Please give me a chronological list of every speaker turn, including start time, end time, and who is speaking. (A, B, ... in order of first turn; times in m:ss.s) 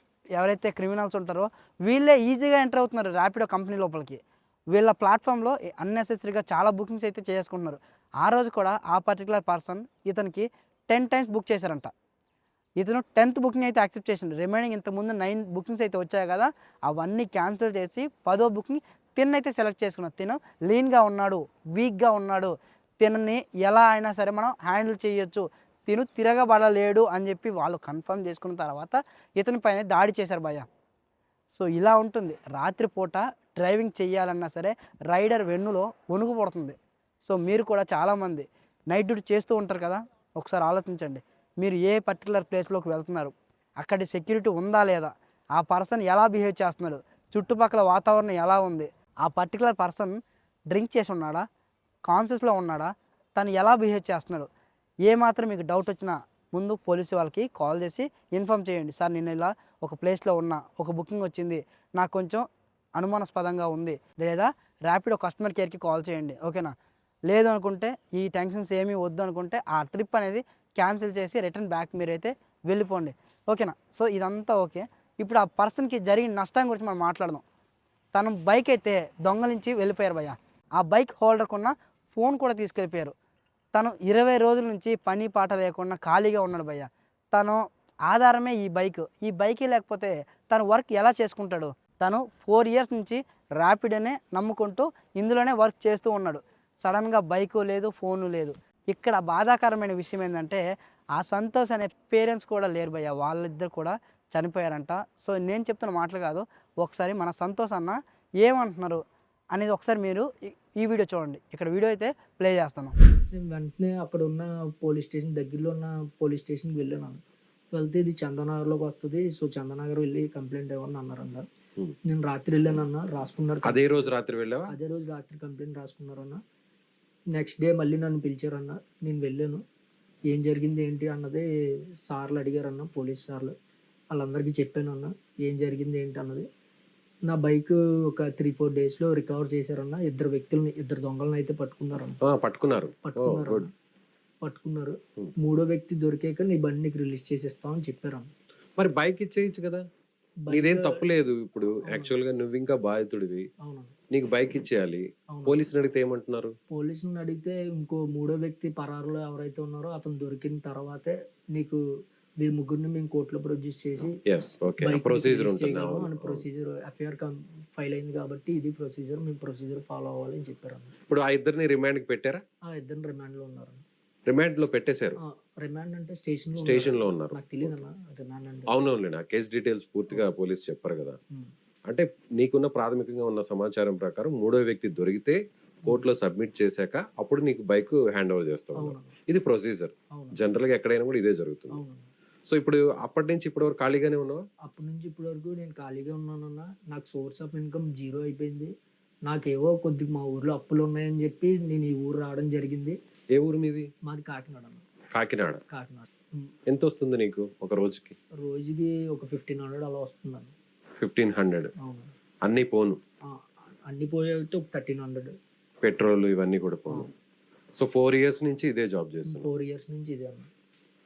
0:00.4-0:04.2 A
0:04.7-0:11.9 A
0:12.8-0:30.7 A
0:31.6-0:50.2 A
0:50.7-0:51.4 A
0:52.1-0:54.5 A
0:55.1-1:02.4 A
1:03.0-1:06.7 A
1:07.3-1:17.4 A
1:18.2-1:23.1 A
1:23.8-1:40.6 A
1:41.2-1:49.0 A
1:49.5-1:53.0 A
1:53.3-1:57.2 B
1:57.7-2:01.5 B
2:02.1-2:04.1 B
2:03.7-2:04.7 C
2:04.7-2:06.4 B
2:07.3-2:09.6 B
2:10.3-2:11.5 B
2:12.1-2:13.5 B
2:14.1-2:16.4 B
2:17.3-2:22.2 B
2:22.2-2:23.7 C
2:23.0-2:23.7 B
2:24.4-2:28.3 B
2:28.8-2:29.8 C
2:30.5-2:31.1 B
2:30.5-2:33.5 C
2:31.9-2:32.2 B
2:33.6-2:33.9 B
2:34.1-2:36.5 C
2:35.3-2:35.7 B
2:36.7-2:41.8 B
2:42.4-2:44.2 B
2:44.2-2:46.4 C
2:44.8-2:50.9 B
2:51.1-2:52.4 C
2:52.7-2:53.8 B
2:54.3-2:55.2 C
2:55.3-2:58.8 B
2:56.6-2:57.8 C
2:58.7-3:01.2 C
3:01.9-3:11.8 C
3:08.8-3:09.1 B
3:10.1-3:10.4 B
3:11.7-3:12.1 B
3:12.5-3:14.4 C
3:14.6-3:18.7 B
3:19.3-3:23.0 B
3:23.4-3:23.9 C
3:24.1-3:24.8 B
3:25.2-3:25.6 C
3:25.7-3:26.5 B
3:26.7-3:28.2 C
3:28.4-3:30.5 B
3:31.0-3:31.7 C
3:31.8-3:32.1 B
3:32.5-3:33.0 C
3:33.3-3:35.4 B
3:35.8-3:37.1 C
3:37.8-3:39.5 C
3:39.3-3:40.5 B